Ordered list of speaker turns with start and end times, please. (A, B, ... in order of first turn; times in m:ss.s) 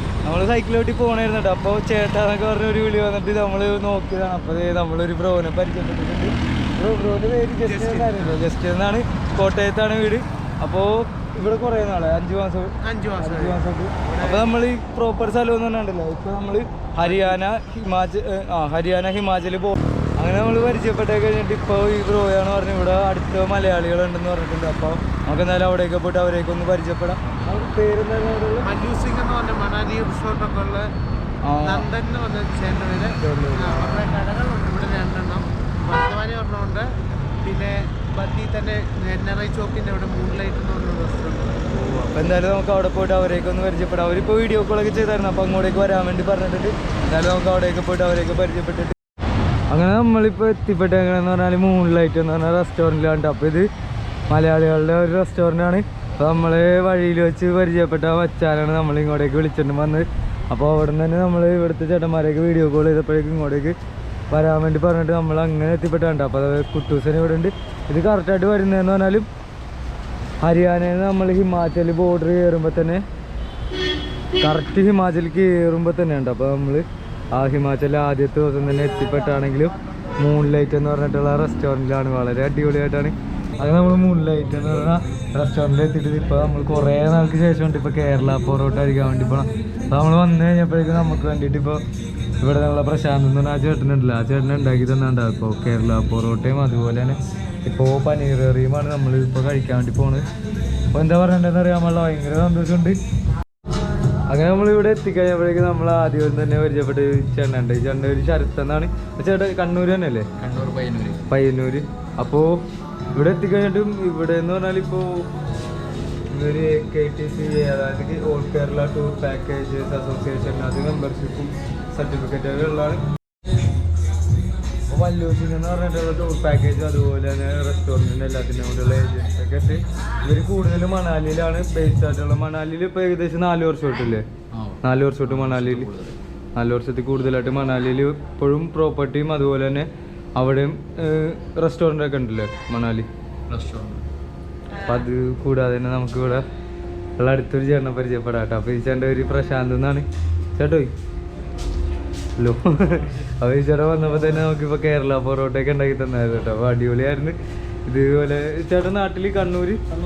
0:00.2-0:28.7 A
0:07.6-0:08.4 B
0:12.8-0:14.5 B
0:28.6-0:30.9 B
0:31.4-0:31.9 A
0:31.6-0:36.9 B
0:33.1-0:34.1 A
0:37.4-0:41.6 B
0:41.7-0:48.9 A
0:49.7-0:53.7 A
0:54.3-1:03.8 A
1:04.3-1:09.3 A
1:10.4-1:13.0 A
1:14.4-1:31.8 A
1:32.4-1:40.2 A
1:40.9-1:43.0 A
1:44.3-1:50.3 A
1:50.4-1:51.2 C
1:51.3-1:52.6 A
1:53.1-1:55.3 A
1:56.3-2:03.0 A
2:04.9-2:14.2 A
2:14.5-2:16.2 C
2:14.8-2:15.9 A
2:16.6-2:23.1 A
2:23.5-2:24.0 C
2:24.8-2:26.4 A
2:27.2-2:30.9 A
2:32.4-2:37.4 A
2:37.9-2:39.8 A